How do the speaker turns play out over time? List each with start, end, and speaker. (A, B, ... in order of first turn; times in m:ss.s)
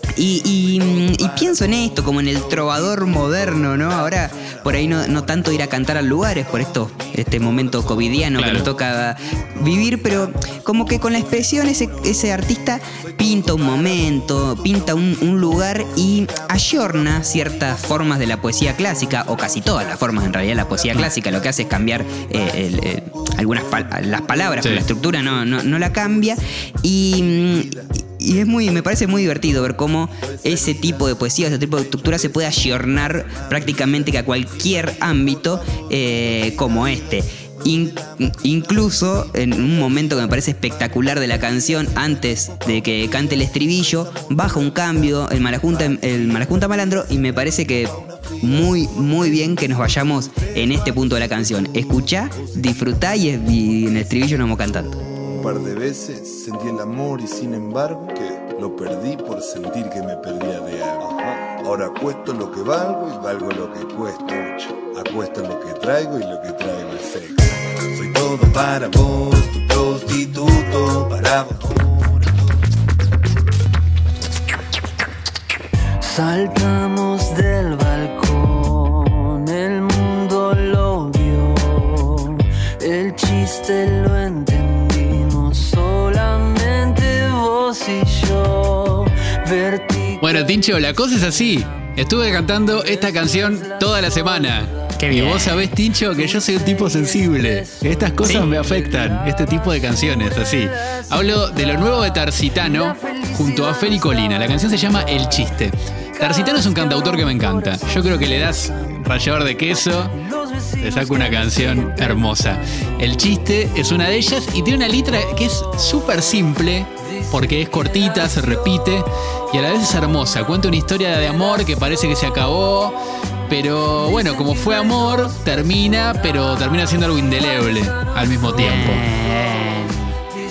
0:00.2-0:55.0 A
0:08.4-0:08.7 B
0:24.6-0:24.9 B
0:55.2-1:12.4 C
1:16.0-1:30.5 D
1:30.2-1:50.2 B
1:32.6-1:34.5 D
1:35.0-1:35.6 A
1:35.8-1:45.5 D
1:38.2-1:38.5 A
1:46.2-1:49.0 D
1:50.1-1:53.3 D
1:50.8-2:09.1 B
1:57.2-1:58.6 D
2:04.0-2:08.1 D
2:08.5-2:10.1 A